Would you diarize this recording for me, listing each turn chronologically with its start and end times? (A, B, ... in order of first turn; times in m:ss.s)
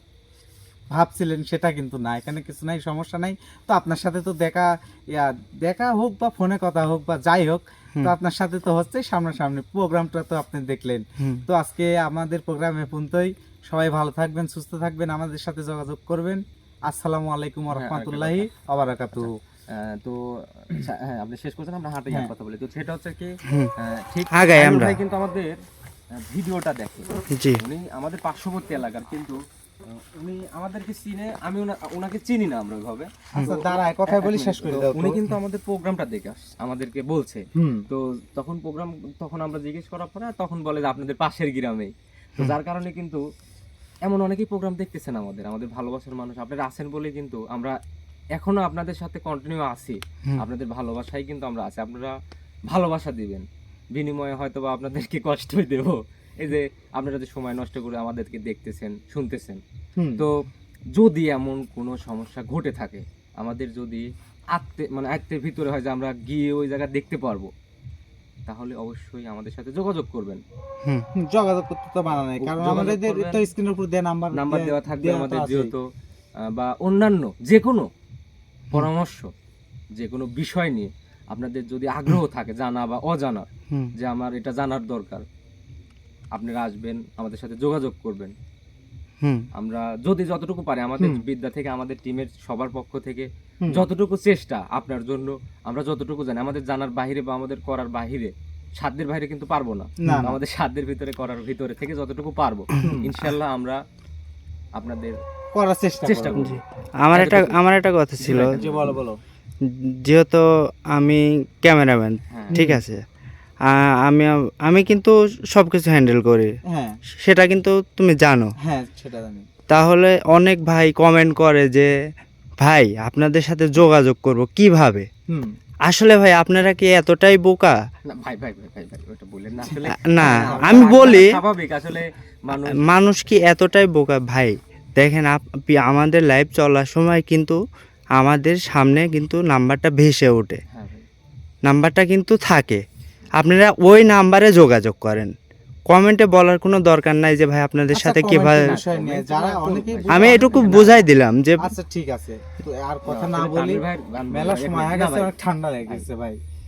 0:00.9-0:19.4 A
0:11.2-0:11.4 B
0:17.7-0:18.5 C
0:19.2-0:25.6 C
0:23.4-0:23.7 B
0:24.3-0:25.0 B
0:26.1-0:43.2 C
0:27.3-0:27.6 B
0:33.4-0:35.2 A
0:37.5-0:37.9 A
0:44.0-0:47.8 C
0:48.4-0:52.2 C
0:52.7-0:59.6 C
1:00.0-1:00.3 A
1:00.9-1:07.5 C
1:08.5-1:10.4 C
1:11.2-1:15.7 A
1:12.4-1:13.4 C
1:14.3-1:15.9 C
1:16.4-1:17.9 C
1:18.7-1:19.3 C
1:20.0-1:25.3 C
1:26.3-1:28.4 C
1:29.2-1:29.5 B
1:29.5-1:43.8 C
1:40.0-1:40.4 A
1:42.8-1:43.1 A
1:44.8-1:45.2 C
1:45.6-1:46.5 A
1:46.0-1:46.6 C
1:46.4-1:48.6 B
1:47.1-1:47.6 C
1:48.2-1:49.0 C
1:48.3-1:49.2 A
1:49.6-1:53.0 B
1:52.3-1:52.6 C
1:52.5-1:52.8 A
1:53.6-1:56.6 B
1:56.7-1:57.0 A
1:57.1-1:58.5 B
1:58.6-1:59.5 A
1:59.7-2:01.9 B
2:02.6-2:05.1 B
2:05.8-2:07.8 B
2:08.0-2:12.9 C
2:09.9-2:11.4 B
2:10.2-2:11.2 A
2:12.7-2:17.6 B
2:18.2-2:20.6 B
2:20.7-2:21.1 C
2:21.6-2:22.8 B
2:23.4-2:25.3 B
2:25.9-2:28.8 B
2:27.9-2:30.9 A
2:28.6-2:31.0 C
2:30.1-2:31.8 B
2:31.6-2:36.4 A
2:33.1-2:35.3 C